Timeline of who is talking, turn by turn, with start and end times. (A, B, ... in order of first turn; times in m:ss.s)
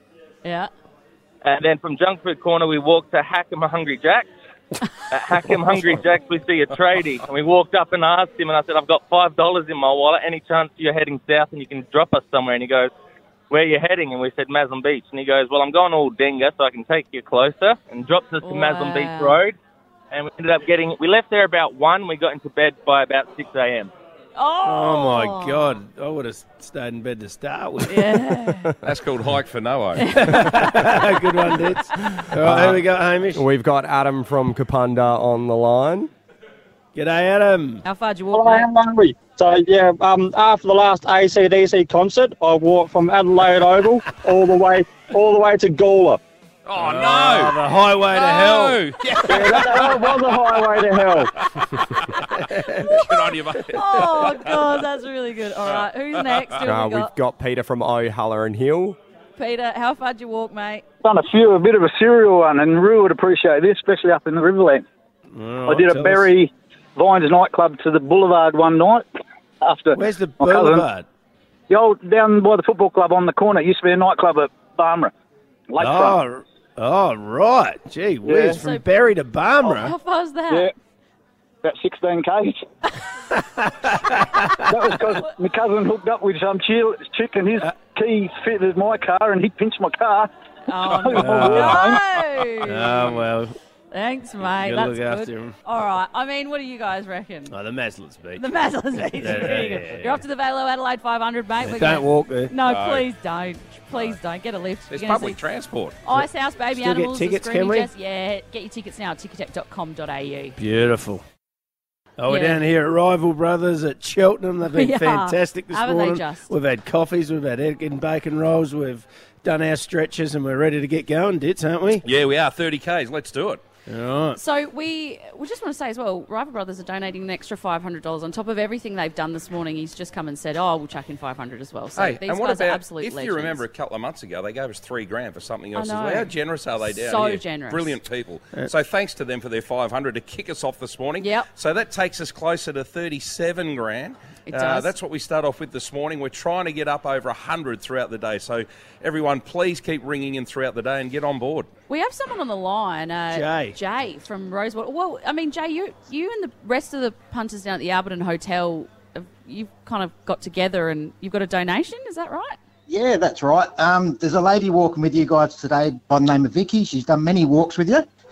0:00.4-0:00.7 A
0:01.4-0:04.3 B
0:05.1-0:12.9 B
0:13.5-0:19.6 B
0:18.4-0:19.4 A
0:20.1-0:23.9 B
0:24.4-0:25.8 A
0:24.6-0:28.2 C
0:27.8-0:28.7 A
0:28.8-0:30.2 D
0:30.0-0:31.6 A
0:30.1-0:33.4 C
0:32.4-0:32.8 E
0:33.3-0:36.1 E
0:36.9-0:37.8 C
0:37.8-0:38.7 A
0:38.3-0:46.2 F
0:46.7-0:47.6 D
0:46.8-0:48.8 C
0:48.1-0:52.2 D
0:49.3-0:51.3 F
0:49.4-0:51.2 G
0:52.3-0:53.1 C
0:52.8-0:54.7 D
0:53.7-0:57.1 A
0:55.6-0:56.5 D
0:56.6-0:59.0 E
0:59.4-1:00.8 A
1:01.0-1:04.8 G
1:05.3-1:06.3 C
1:05.6-1:09.0 G
1:09.6-1:10.8 G
1:10.0-1:11.0 C
1:11.7-1:15.1 G
1:15.7-1:16.2 G
1:15.8-1:19.9 C
1:18.2-1:18.6 G
1:18.5-1:18.8 A
1:19.6-1:20.7 A
1:21.6-1:22.6 G
1:23.3-1:24.8 C
1:24.7-1:30.3 G
1:30.7-1:33.2 A
1:31.1-1:32.0 G
1:31.1-1:31.9 C
1:32.6-1:33.5 C
1:33.9-1:37.5 A
1:34.5-1:35.5 C
1:37.5-1:40.2 C
1:38.3-1:45.4 A
1:41.6-1:42.5 C
1:42.6-1:43.0 D
1:44.9-1:46.0 D
1:46.0-1:50.6 A
1:46.2-1:47.9 C
1:50.6-1:51.2 C
1:52.2-2:02.0 C
1:52.3-1:52.6 A
1:54.7-1:56.5 A
2:02.0-2:03.6 D
2:03.9-2:04.4 C
2:04.3-2:13.6 A
2:12.0-2:31.7 D
2:15.7-2:16.3 A
2:16.8-2:17.9 A
2:21.2-2:21.5 A
2:24.5-2:24.9 A
2:31.9-2:42.6 A
2:33.3-2:33.8 C
2:42.9-2:48.0 H